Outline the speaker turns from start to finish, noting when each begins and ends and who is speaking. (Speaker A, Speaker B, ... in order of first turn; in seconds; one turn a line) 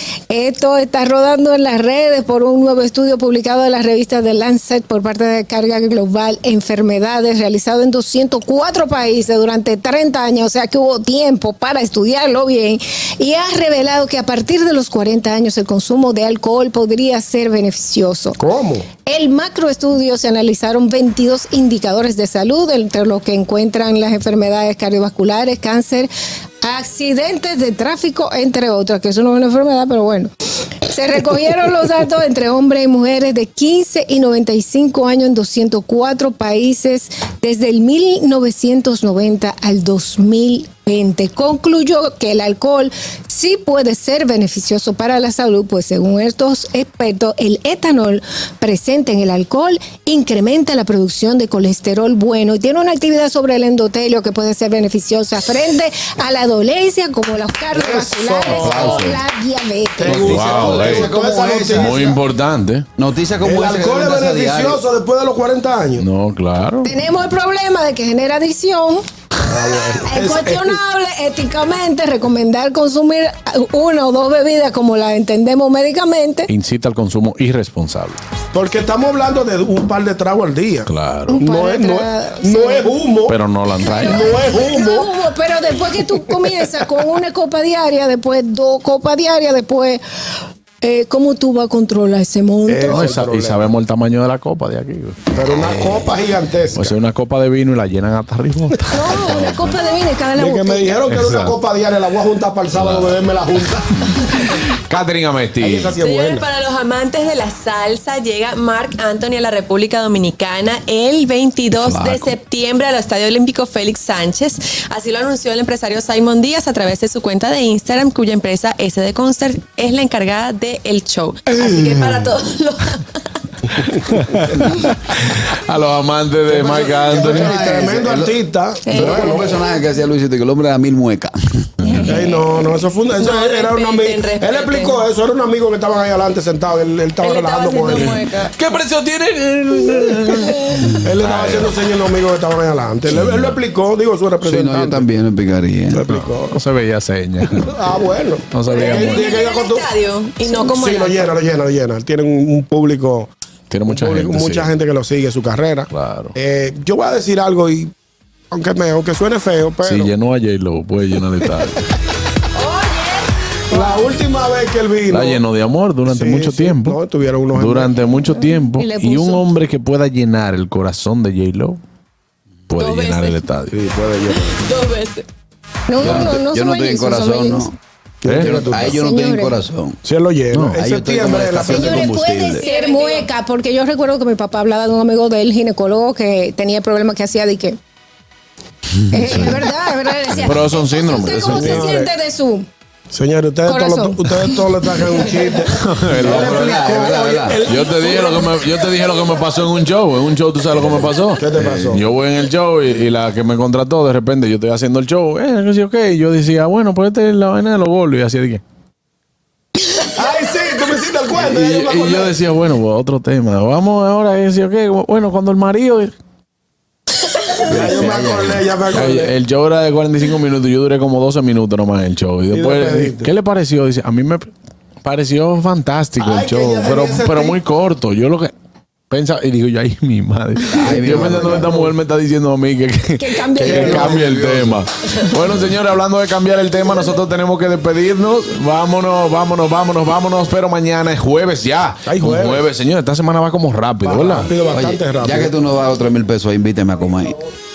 Speaker A: 0.3-18.4
Speaker B: 18.4-18.9
Speaker A: 19.1-26.1
Speaker A: 26.6-30.3
Speaker A: 30.9-60.4
Speaker B: 57.7-59.1
Speaker C: 58.5-59.1
Speaker D: 58.8-59.2
Speaker B: 60.0-62.2
Speaker C: 60.0-62.1
Speaker D: 60.2-61.1
Speaker D: 61.7-62.9
Speaker C: 63.0-64.8
Speaker B: 63.4-66.1
Speaker D: 66.0-66.9
Speaker A: 66.8-69.0
Speaker B: 69.4-70.8
Speaker A: 70.0-76.5
Speaker D: 76.5-78.2
Speaker B: 78.5-83.4
Speaker D: 80.9-81.4
Speaker A: 81.3-82.9
Speaker D: 83.3-84.3
Speaker A: 83.8-90.0
Speaker B: 84.0-85.2
Speaker A: 90.8-93.1
Speaker B: 92.7-93.7
Speaker D: 92.9-95.2
Speaker B: 95.3-97.0
Speaker C: 95.5-96.2
Speaker D: 96.8-99.6
Speaker A: 98.9-101.0
Speaker B: 100.3-104.4
Speaker D: 101.1-101.5
Speaker D: 102.7-103.2
Speaker D: 104.9-106.0
Speaker B: 105.6-106.5
Speaker E: 106.0-123.3
Speaker C: 111.7-112.3
Speaker B: 121.6-122.2
Speaker D: 124.3-127.9
Speaker C: 126.5-128.4
Speaker B: 126.5-129.6
Speaker E: 128.9-129.7
Speaker C: 128.9-131.9
Speaker D: 131.8-132.1
Speaker E: 131.9-135.0
Speaker B: 132.1-138.2
Speaker E: 137.2-138.6
Speaker D: 138.0-141.7
Speaker B: 141.0-145.1
Speaker D: 143.1-143.6
Speaker C: 144.4-146.0
Speaker B: 145.9-146.6
Speaker D: 146.1-147.8
Speaker B: 147.5-149.9
Speaker D: 148.5-149.2
Speaker E: 148.7-151.4
Speaker B: 150.4-153.3
Speaker D: 153.7-154.7
Speaker B: 153.9-157.9
Speaker D: 155.9-156.3
Speaker B: 158.5-160.1
Speaker D: 159.8-161.8
Speaker E: 162.6-164.0
Speaker B: 163.7-165.4
Speaker D: 165.1-167.0
Speaker B: 166.1-168.0
Speaker D: 167.5-171.8
Speaker A: 168.2-169.5
Speaker D: 172.7-173.8
Speaker E: 172.8-173.5
Speaker B: 173.7-174.7
Speaker E: 174.3-175.3
Speaker A: 175.9-177.8
Speaker C: 176.0-177.8
Speaker B: 178.2-179.0
Speaker D: 178.2-178.7
Speaker C: 178.3-180.0
Speaker A: 178.8-179.6
Speaker B: 180.0-182.1
Speaker D: 180.5-180.8
Speaker C: 180.8-182.7
Speaker A: 181.7-187.8
Speaker E: 182.5-183.3
Speaker A: 189.1-192.7
Speaker D: 189.2-189.6
Speaker D: 190.3-191.8
Speaker B: 191.5-192.1
Speaker B: 193.1-198.7
Speaker A: 193.7-195.3
Speaker D: 195.8-196.8
Speaker C: 196.1-197.7
Speaker D: 197.6-208.6
Speaker B: 201.4-202.0
Speaker B: 210.1-212.3
Speaker D: 211.4-216.1
Speaker C: 217.7-218.5
Speaker B: 217.7-219.3
Speaker D: 217.9-224.5
Speaker B: 222.5-223.3
Speaker D: 225.0-228.5
Speaker B: 226.2-227.6
Speaker D: 229.1-244.5
Speaker C: 230.6-231.8
Speaker B: 230.8-231.9
Speaker A: 233.2-234.2
Speaker B: 233.6-234.8
Speaker B: 242.1-242.7
Speaker B: 244.0-245.6
Speaker C: 244.7-247.4